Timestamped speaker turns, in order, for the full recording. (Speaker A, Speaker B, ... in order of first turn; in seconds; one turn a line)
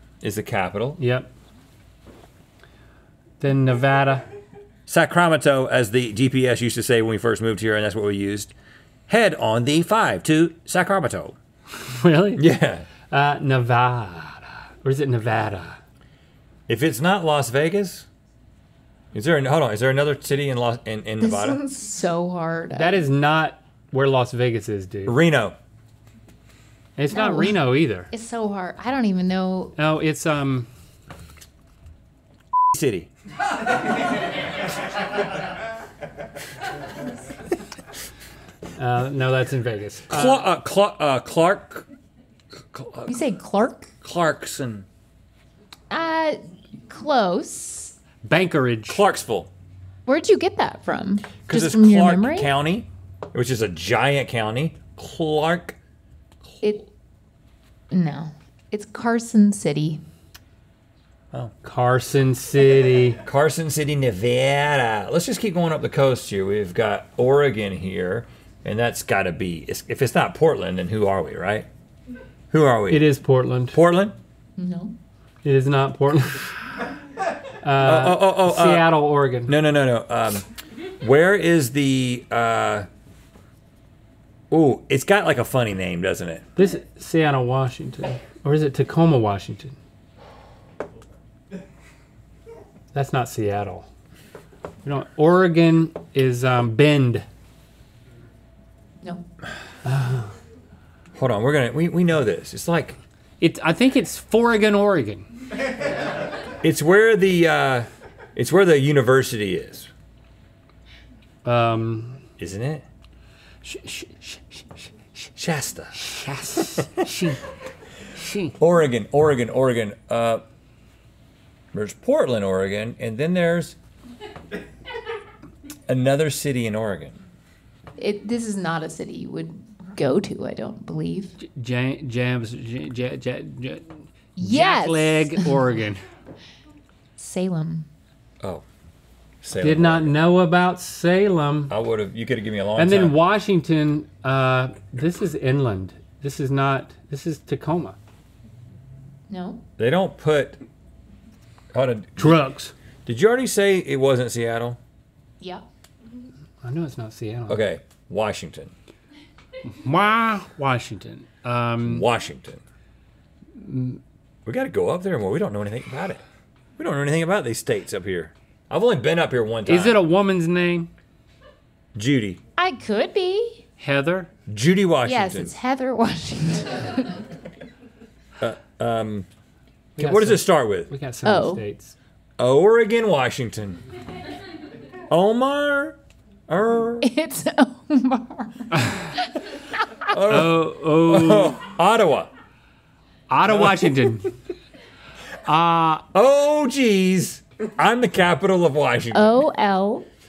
Speaker A: 0.2-1.0
Speaker B: 1.0-1.3
Speaker B: 3.4-4.3
Speaker A: 4.9-8.5
Speaker A: 9.1-11.4
Speaker B: 11.9-12.4
Speaker A: 12.4-12.9
Speaker B: 13.1-15.8
Speaker A: 16.7-18.1
Speaker A: 19.1-21.6
Speaker C: 21.2-23.1
Speaker B: 22.7-25.2
Speaker A: 25.1-25.6
Speaker B: 27.0-28.1
Speaker C: 27.1-29.8
Speaker B: 29.8-30.7
Speaker A: 32.7-33.1
Speaker B: 38.8-40.5
Speaker A: 40.1-41.9
Speaker A: 42.7-43.2
Speaker C: 43.1-43.9
Speaker A: 44.0-44.9
Speaker C: 45.9-48.0
Speaker B: 48.2-49.0
Speaker A: 48.9-49.5
Speaker C: 50.1-52.5
Speaker A: 51.5-55.8
Speaker C: 57.9-60.0
Speaker B: 61.6-63.2
Speaker A: 63.2-71.7
Speaker A: 72.5-73.1
Speaker B: 72.9-73.8
Speaker A: 73.7-74.2
Speaker C: 74.6-75.0
Speaker B: 75.4-76.5
Speaker B: 77.6-79.5
Speaker A: 77.8-78.9
Speaker A: 79.5-80.5
Speaker A: 81.0-82.9
Speaker A: 84.5-86.5
Speaker B: 86.6-89.8
Speaker B: 92.9-93.9
Speaker B: 94.8-97.3
Speaker B: 99.8-100.3
Speaker A: 101.2-103.0
Speaker B: 103.4-105.3
Speaker A: 106.6-109.9
Speaker B: 111.4-112.2
Speaker A: 112.4-112.8
Speaker B: 113.6-115.3
Speaker A: 115.4-116.1
Speaker B: 115.9-117.5
Speaker B: 118.1-118.6
Speaker A: 118.6-120.4
Speaker A: 121.7-123.8
Speaker A: 125.9-127.2
Speaker C: 128.0-131.4
Speaker B: 131.4-136.0
Speaker C: 134.4-135.6
Speaker C: 137.2-137.9
Speaker A: 139.4-140.2
Speaker B: 139.6-141.8
Speaker A: 141.7-143.2
Speaker B: 142.8-148.0
Speaker C: 149.3-149.6
Speaker A: 149.8-150.6
Speaker A: 151.7-152.4
Speaker B: 152.2-152.7
Speaker A: 153.1-154.8
Speaker B: 156.6-157.6
Speaker A: 157.5-158.7
Speaker B: 159.7-162.1
Speaker A: 161.8-162.6
Speaker B: 163.6-164.0
Speaker A: 164.5-166.2
Speaker A: 166.8-170.0
Speaker B: 169.7-170.9
Speaker A: 171.9-172.4
Speaker C: 172.6-173.6
Speaker B: 173.8-174.3
Speaker A: 174.5-175.6
Speaker C: 175.1-177.2
Speaker A: 178.4-179.3
Speaker B: 180.0-181.9
Speaker A: 180.0-180.9
Speaker C: 181.2-181.6
Speaker A: 182.4-183.8
Speaker A: 185.1-187.1
Speaker C: 187.0-189.4
Speaker A: 190.1-192.3
Speaker B: 190.2-191.6
Speaker B: 193.3-194.3
Speaker A: 193.5-194.1
Speaker B: 195.5-196.1
Speaker A: 196.1-199.4
Speaker C: 199.1-200.1